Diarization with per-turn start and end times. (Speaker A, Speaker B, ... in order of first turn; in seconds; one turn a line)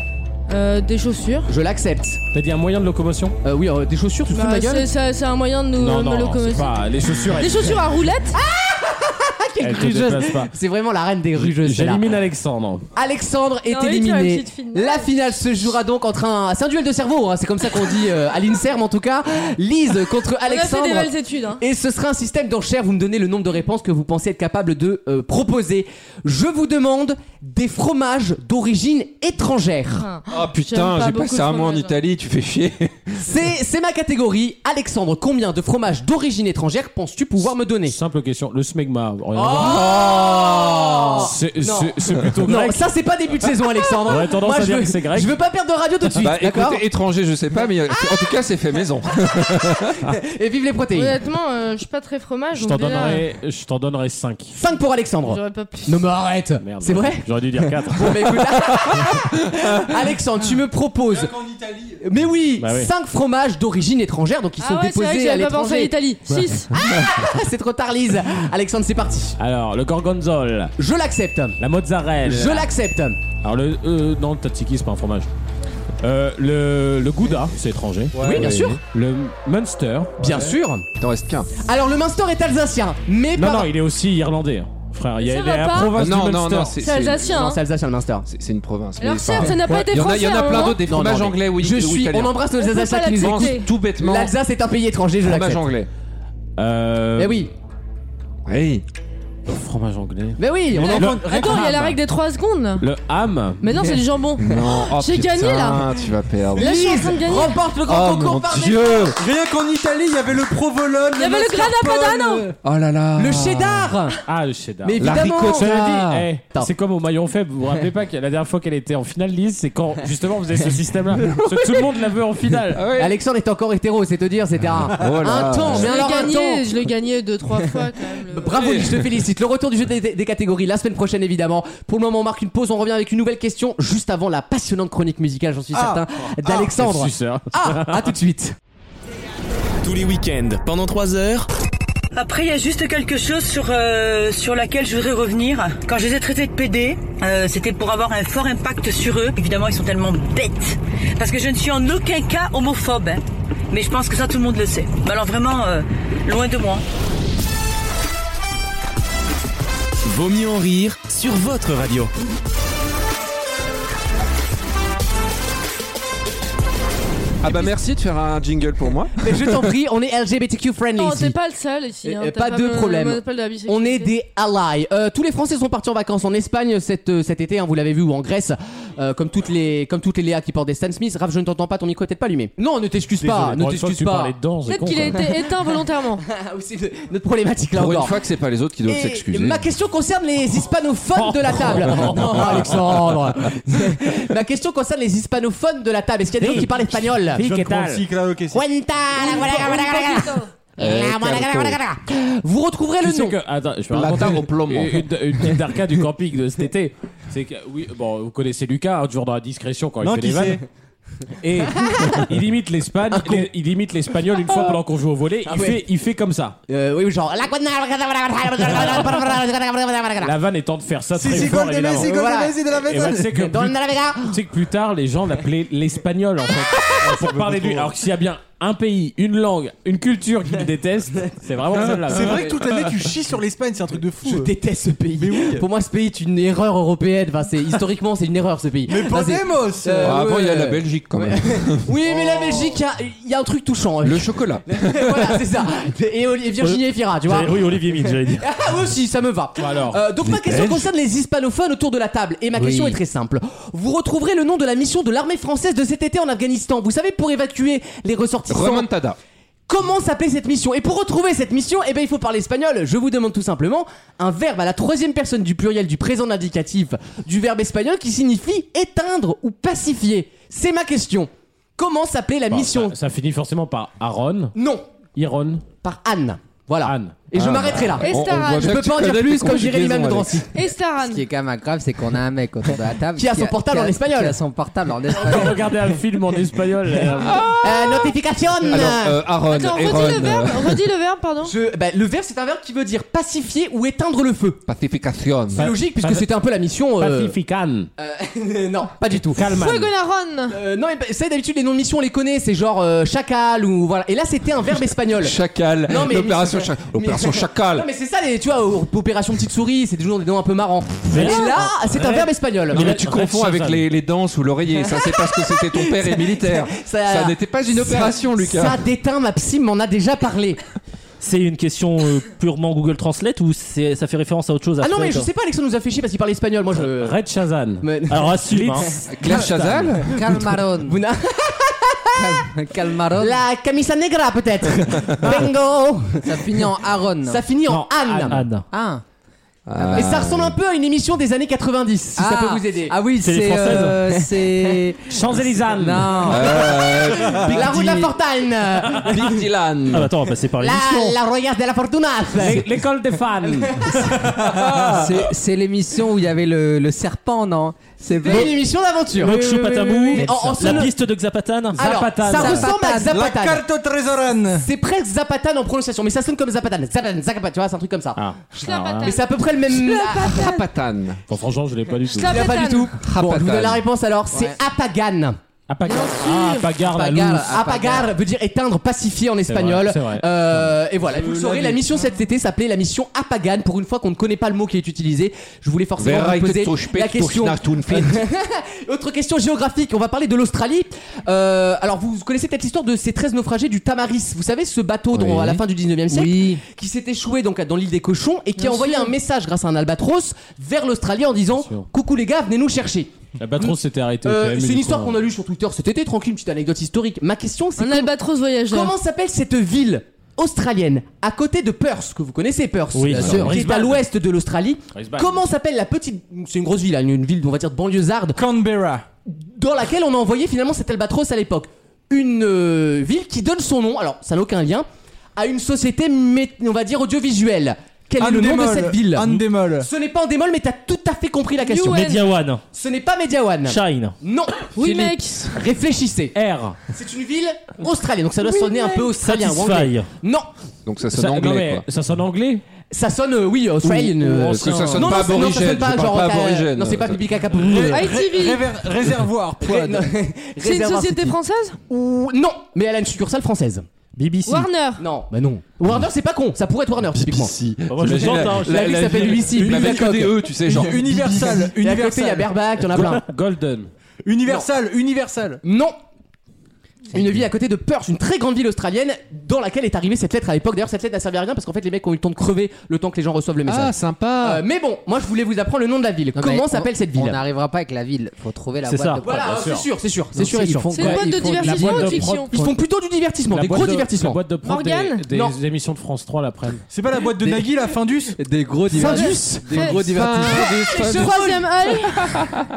Speaker A: 0.5-1.5
Speaker B: 1.5-2.2
Speaker C: 2.3-3.4
Speaker B: 3.4-4.9
Speaker A: 4.3-6.8
Speaker C: 5.8-7.9
Speaker A: 7.3-8.4
Speaker B: 8.3-12.1
Speaker C: 9.6-10.5
Speaker C: 11.3-12.8
Speaker B: 12.9-30.1
Speaker A: 13.7-15.2
Speaker A: 20.4-21.6
Speaker A: 29.9-32.0
Speaker D: 30.3-33.2
Speaker B: 33.2-38.0
Speaker C: 37.9-39.9
Speaker B: 39.3-46.8
Speaker D: 39.6-40.9
Speaker C: 41.2-42.8
Speaker C: 44.0-45.4
Speaker D: 46.2-50.0
Speaker B: 50.1-51.1
Speaker A: 50.9-53.2
Speaker C: 52.5-54.5
Speaker B: 54.5-61.3
Speaker A: 55.2-56.1
Speaker C: 56.6-58.2
Speaker E: 61.1-62.0
Speaker B: 62.0-65.9
Speaker C: 62.6-62.9
Speaker A: 64.6-66.7
Speaker B: 66.7-69.3
Speaker C: 69.4-70.7
Speaker B: 70.8-71.6
Speaker C: 71.6-72.7
Speaker B: 72.2-73.2
Speaker C: 73.4-75.3
Speaker C: 76.0-80.1
Speaker E: 78.1-78.5
Speaker B: 78.2-78.8
Speaker D: 78.3-78.7
Speaker B: 80.2-80.9
Speaker D: 81.0-81.5
Speaker B: 81.5-83.7
Speaker C: 83.3-86.8
Speaker A: 85.2-86.0
Speaker D: 85.9-87.3
Speaker A: 86.8-87.6
Speaker B: 87.2-88.3
Speaker D: 88.3-92.5
Speaker A: 89.0-90.8
Speaker B: 90.8-95.7
Speaker A: 92.6-93.7
Speaker D: 93.1-94.3
Speaker D: 95.2-95.9
Speaker C: 96.6-97.5
Speaker B: 97.2-97.5
Speaker D: 98.5-98.8
Speaker C: 99.5-102.0
Speaker B: 100.4-101.5
Speaker E: 100.7-101.8
Speaker A: 101.0-102.8
Speaker C: 102.8-103.7
Speaker A: 103.6-105.9
Speaker D: 104.4-107.0
Speaker A: 106.5-107.6
Speaker B: 106.5-109.1
Speaker D: 107.8-109.2
Speaker E: 109.2-112.5
Speaker A: 111.1-112.5
Speaker D: 112.6-113.9
Speaker B: 113.2-114.2
Speaker C: 114.3-122.8
Speaker B: 114.8-116.7
Speaker D: 115.0-116.0
Speaker B: 121.3-121.8
Speaker D: 122.7-123.2
Speaker B: 123.0-126.7
Speaker D: 124.9-126.0
Speaker A: 125.7-128.6
Speaker B: 128.2-138.5
Speaker D: 128.5-129.0
Speaker E: 135.7-136.0
Speaker C: 136.7-138.1
Speaker F: 139.8-141.5
Speaker G: 142.1-156.8
Speaker F: 160.0-162.1
Speaker D: 167.4-169.3
Speaker B: 169.2-171.4
Speaker A: 171.0-174.1
Speaker B: 172.0-184.3
Speaker C: 183.2-185.2
Speaker A: 184.7-186.2
Speaker B: 186.3-188.2
Speaker D: 187.7-189.6
Speaker B: 188.8-197.4
Speaker C: 191.2-193.0
Speaker C: 196.4-198.0
Speaker E: 197.4-198.6
Speaker B: 198.5-203.4
Speaker A: 199.2-200.5
Speaker D: 200.8-201.8
Speaker C: 203.0-210.6
Speaker D: 203.9-205.1
Speaker E: 210.0-210.6
Speaker C: 211.4-216.6
Speaker B: 211.8-212.2
Speaker B: 213.1-213.5
Speaker B: 214.5-214.8
Speaker B: 215.4-215.8
Speaker B: 216.7-220.3
Speaker C: 218.7-219.1
Speaker C: 220.2-222.1
Speaker E: 221.1-223.3
Speaker B: 221.9-222.7
Speaker C: 222.7-232.6
Speaker B: 223.3-224.4
Speaker E: 227.0-227.9
Speaker E: 231.9-234.5
Speaker B: 234.2-258.9
Speaker E: 235.2-235.6
Speaker E: 238.9-240.2
Speaker D: 240.0-241.9
Speaker E: 242.1-242.8
Speaker D: 244.0-245.3
Speaker H: 246.6-248.4
Speaker C: 249.6-250.0
Speaker D: 250.2-250.9
Speaker I: 252.5-253.0
Speaker D: 258.5-259.2
Speaker B: 259.7-272.9
Speaker C: 272.5-274.5
Speaker B: 274.6-274.8
Speaker C: 275.1-275.6
Speaker B: 275.8-280.5
Speaker C: 276.8-277.2
Speaker D: 277.3-280.5
Speaker A: 278.0-278.8
Speaker A: 280.5-281.2
Speaker I: 281.0-285.6
Speaker B: 283.1-284.4
Speaker C: 285.1-287.5
Speaker D: 287.3-287.6
Speaker B: 287.6-289.2
Speaker D: 288.7-290.8
Speaker A: 289.5-291.5
Speaker B: 291.4-294.6
Speaker D: 294.7-295.7
Speaker C: 295.5-296.3
Speaker B: 295.5-297.3
Speaker C: 297.0-297.9
Speaker B: 298.0-299.4
Speaker C: 299.3-299.9
Speaker A: 299.5-300.6
Speaker B: 300.5-313.0
Speaker D: 305.1-307.9
Speaker C: 311.1-313.9
Speaker D: 312.7-318.8
Speaker B: 314.7-320.6
Speaker H: 321.2-325.3
Speaker B: 324.8-327.1
Speaker C: 326.8-327.9
Speaker B: 327.8-329.4
Speaker H: 328.1-329.0
Speaker C: 328.5-328.9
Speaker D: 329.1-330.4
Speaker I: 329.2-331.0
Speaker B: 330.1-332.4
Speaker I: 332.1-333.4
Speaker B: 333.1-336.7
Speaker I: 336.2-337.4
Speaker B: 337.2-338.4
Speaker C: 337.7-338.4
Speaker H: 338.3-338.6
Speaker I: 338.7-339.0
Speaker D: 339.7-340.6
Speaker I: 339.8-340.1
Speaker B: 339.9-343.0
Speaker I: 342.1-346.8
Speaker H: 343.2-344.1
Speaker B: 344.5-344.7
Speaker C: 345.1-346.3
Speaker B: 346.2-349.4
Speaker D: 346.2-348.1
Speaker I: 347.6-348.1
Speaker D: 348.9-350.1
Speaker H: 349.9-351.2
Speaker B: 350.6-352.7
Speaker C: 352.4-354.0
Speaker B: 353.5-354.1
Speaker E: 354.0-355.1
Speaker D: 354.5-355.2
Speaker I: 354.9-358.6
Speaker B: 358.2-360.9
Speaker H: 359.1-362.7
Speaker C: 360.1-360.9
Speaker C: 361.8-362.7
Speaker B: 361.8-363.6
Speaker I: 362.2-363.1
Speaker E: 363.0-364.7
Speaker B: 364.6-368.2
Speaker C: 368.1-369.1
Speaker A: 368.6-369.4
Speaker B: 369.0-370.6
Speaker D: 369.7-371.2
Speaker C: 371.3-372.4
Speaker A: 372.1-372.9
Speaker B: 372.2-375.4
Speaker D: 373.0-373.8
Speaker I: 374.3-374.6
Speaker C: 375.7-377.5
Speaker I: 376.3-378.1
Speaker B: 377.5-408.1
Speaker C: 379.4-381.8
Speaker D: 386.0-388.2
Speaker D: 395.1-395.6
Speaker I: 396.1-396.6
Speaker A: 398.6-399.1
Speaker C: 401.6-401.9
Speaker C: 403.4-405.2
Speaker A: 407.8-408.9
Speaker B: 408.7-418.4
Speaker H: 412.9-413.6
Speaker C: 413.1-414.0
Speaker D: 413.1-413.5
Speaker C: 414.9-415.4
Speaker E: 418.4-419.0
Speaker B: 419.3-432.2
Speaker E: 428.2-429.9
Speaker A: 431.6-432.2
Speaker H: 431.8-432.6
Speaker B: 432.7-436.3
Speaker H: 433.6-434.1
Speaker A: 434.8-435.6
Speaker C: 436.3-436.8
Speaker B: 436.9-440.5
Speaker H: 438.6-440.1
Speaker D: 440.9-441.8
Speaker C: 441.1-442.6
Speaker B: 442.9-448.0
Speaker D: 444.2-447.2
Speaker E: 447.5-450.1
Speaker A: 447.9-448.7
Speaker B: 449.6-451.4
Speaker A: 450.6-451.8
Speaker B: 451.9-453.9
Speaker H: 454.1-454.7
Speaker A: 454.4-455.0
Speaker B: 455.0-463.2
Speaker D: 457.2-461.4
Speaker H: 457.9-459.0
Speaker C: 458.1-458.6
Speaker E: 459.4-460.1
Speaker E: 460.6-462.5
Speaker C: 462.9-463.9
Speaker E: 464.2-465.6
Speaker B: 465.6-465.9
Speaker B: 467.1-477.4
Speaker D: 473.6-474.6
Speaker I: 476.3-479.7
Speaker H: 478.9-479.2
Speaker C: 478.9-479.9
Speaker B: 479.2-484.4
Speaker I: 480.3-482.7
Speaker A: 480.9-482.5
Speaker C: 481.0-482.5
Speaker C: 483.5-486.8
Speaker A: 484.6-485.2
Speaker B: 485.3-485.6
Speaker E: 486.9-488.4
Speaker I: 488.4-491.0
Speaker B: 488.9-489.9
Speaker A: 489.1-492.4
Speaker E: 489.7-490.2
Speaker D: 489.9-491.7
Speaker B: 490.5-492.3
Speaker D: 492.3-492.6